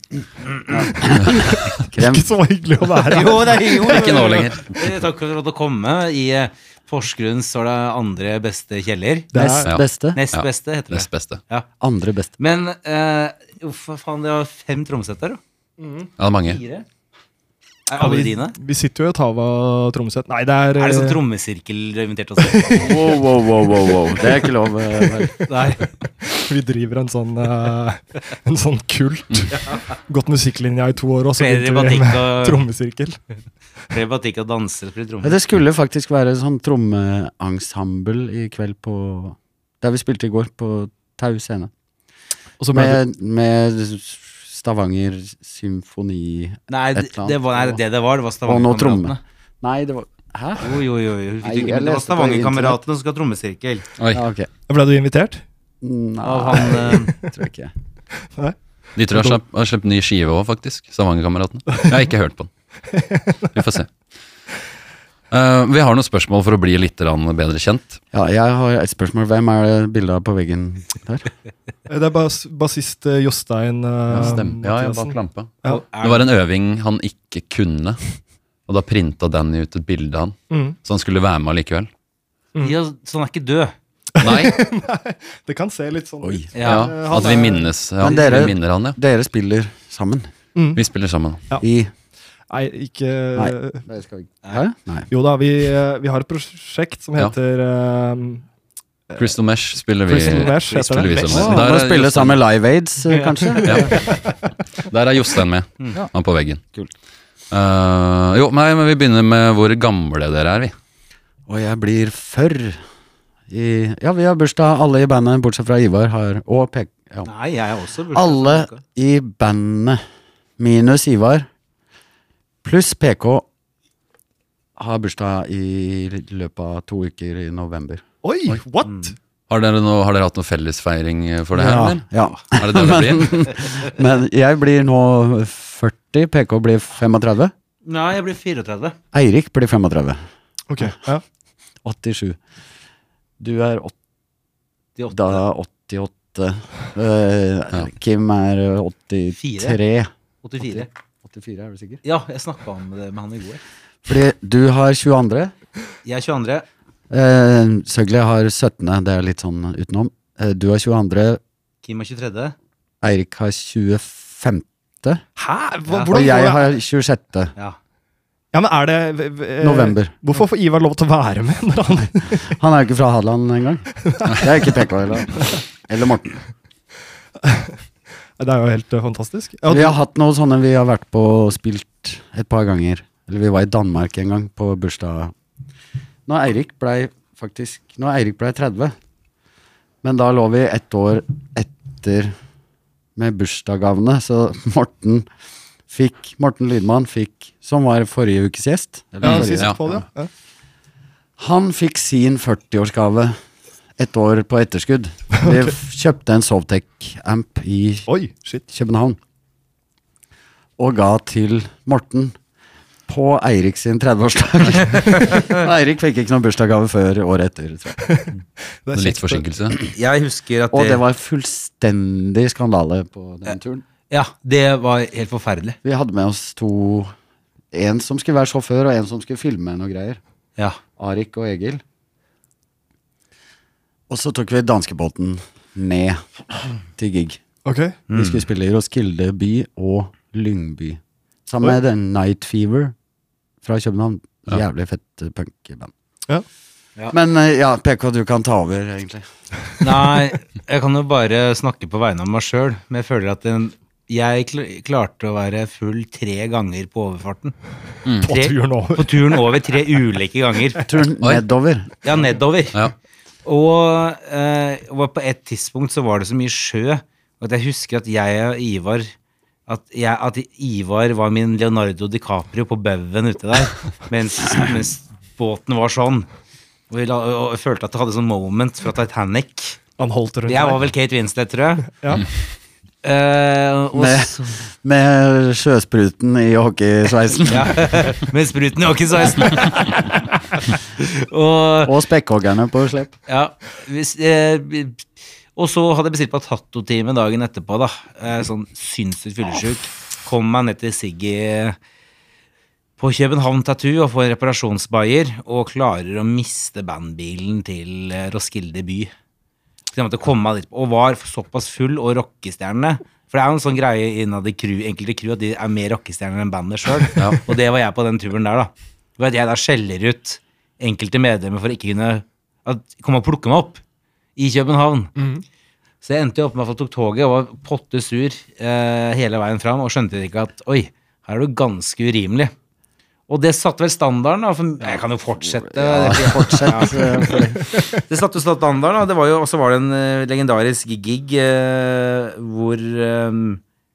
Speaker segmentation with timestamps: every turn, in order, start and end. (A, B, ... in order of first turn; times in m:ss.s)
0:00.7-0:02.3 A
0:01.0-0:03.9 B
0:03.0-0:09.3 C
0:03.8-0:04.7 D
0:09.3-0:09.7 B
0:09.3-0:10.2 A
0:09.6-0:11.4 D
0:10.1-0:11.6 C
0:11.8-0:12.3 A
0:12.4-0:15.4 C
0:15.8-0:16.1 B
0:16.2-0:16.6 D
0:16.4-0:16.8 C
0:17.9-0:18.5 C
0:18.0-0:21.2 B
0:20.7-0:23.1 C
0:22.4-0:23.1 B
0:22.8-0:25.4 A
0:25.5-0:25.8 C
0:25.8-0:33.2 B
0:31.4-0:32.6 C
0:33.9-0:35.4 C
0:35.2-0:41.7 A
0:42.6-0:43.0 B
0:42.7-0:47.8 A
0:46.7-0:49.2 C
0:48.4-0:50.6 A
0:50.6-0:53.8 C
0:51.4-0:52.8 A
0:54.1-0:54.5 A
0:54.7-0:55.4 B
0:55.8-0:57.7 A
0:56.2-0:57.1 C
0:56.7-0:57.3 B
0:59.0-1:02.5 D
0:59.1-0:59.4 B
1:03.1-1:03.5 B
1:03.5-1:03.9 D
1:05.3-1:08.0 D
1:08.1-1:11.3 A
1:11.9-1:15.8 B
1:14.1-1:18.0 D
1:15.6-1:16.3 C
1:18.7-1:21.9 D
1:20.5-1:20.8 B
1:22.6-1:23.7 C
1:24.2-1:27.7 B
1:24.2-1:24.7 D
1:26.2-1:26.5 A
1:26.5-1:26.9 C
1:26.6-1:29.0 D
1:28.0-1:30.3 A
1:30.6-1:30.8 B
1:30.8-1:31.4 D
1:31.6-1:31.9 A
1:32.5-1:33.8 B
1:33.4-1:35.1 A
1:35.1-1:38.4 B
1:39.2-1:42.4 D
1:40.1-1:41.5 B
1:41.2-1:44.1 A
1:43.6-1:44.0 D
1:44.8-1:46.6 D
1:47.5-1:50.7 D
1:51.5-1:52.8 A
1:53.5-1:57.3 A
1:57.2-1:58.8 C
1:58.1-2:00.0 A
2:00.6-2:01.5 A
2:02.6-2:03.4 A
2:04.8-2:08.0 A
2:08.2-2:09.1 B
2:08.8-2:09.1 C
2:09.5-2:13.5 D
2:11.5-2:17.5 A
2:17.8-2:19.0 C
2:19.1-2:20.2 A
2:20.7-2:21.2 B
2:21.8-2:22.4 A
2:23.4-2:23.9 A
2:25.0-2:25.4 C
2:25.1-2:32.0 A
2:29.4-2:29.8 C
2:30.4-2:30.9 C
2:32.0-2:33.6 C
2:34.0-2:35.5 A
2:36.0-2:36.6 C
2:37.1-2:41.4 A
2:41.8-2:42.5 C
2:43.0-2:45.2 A
2:45.4-2:46.7 B
2:45.9-2:46.3 C
2:46.1-2:47.5 A
2:48.5-2:52.5 B
2:49.6-2:50.1 A
2:52.5-2:56.4 A
2:54.1-2:54.5 B
2:57.4-2:57.7 B
2:58.4-2:59.9 B
2:59.7-3:05.3 A
3:06.3-3:08.9 A
3:10.0-3:12.3 A
3:13.2-3:15.2 A
3:15.9-3:19.8 A
3:19.2-3:20.0 D
3:19.2-3:20.3 B
3:21.4-3:23.4 A
3:24.0-3:28.1 A
3:28.1-3:28.6 B
3:28.7-3:29.2 A
3:30.8-3:32.3 A
3:33.1-3:38.0 A
3:34.8-3:35.6 C
3:38.0-3:39.4 B
3:38.9-3:39.8 D
3:39.9-3:41.0 C
3:40.7-3:43.8 A
3:44.1-3:45.8 C
3:45.8-3:47.1 A
3:47.7-3:50.2 A
3:51.0-3:51.8 A
3:54.1-3:56.2 A
3:57.0-3:57.4 A
3:57.6-3:58.0 B
3:58.1-3:58.4 C
3:58.1-4:02.9 A
4:03.6-4:05.9 A
4:07.1-4:09.2 A
4:09.8-4:17.5 C
4:18.2-4:19.1 B
4:18.2-4:20.9 C
4:20.8-4:21.9 A
4:22.0-4:22.8 C
4:23.4-4:29.1 C
4:29.7-4:36.3 C
4:36.9-4:39.8 C
4:40.0-4:40.8 B
4:40.5-4:41.8 C
4:43.0-4:44.6 C
4:43.9-4:47.9 A
4:47.5-4:51.9 C
4:51.8-4:53.2 A
4:53.3-5:01.8 C
5:03.0-5:09.1 C
5:09.9-5:23.8 C
5:24.4-5:25.1 C
5:25.2-5:25.4 B
5:26.0-5:32.5 C
5:33.3-5:43.6 C
5:35.4-5:37.8 A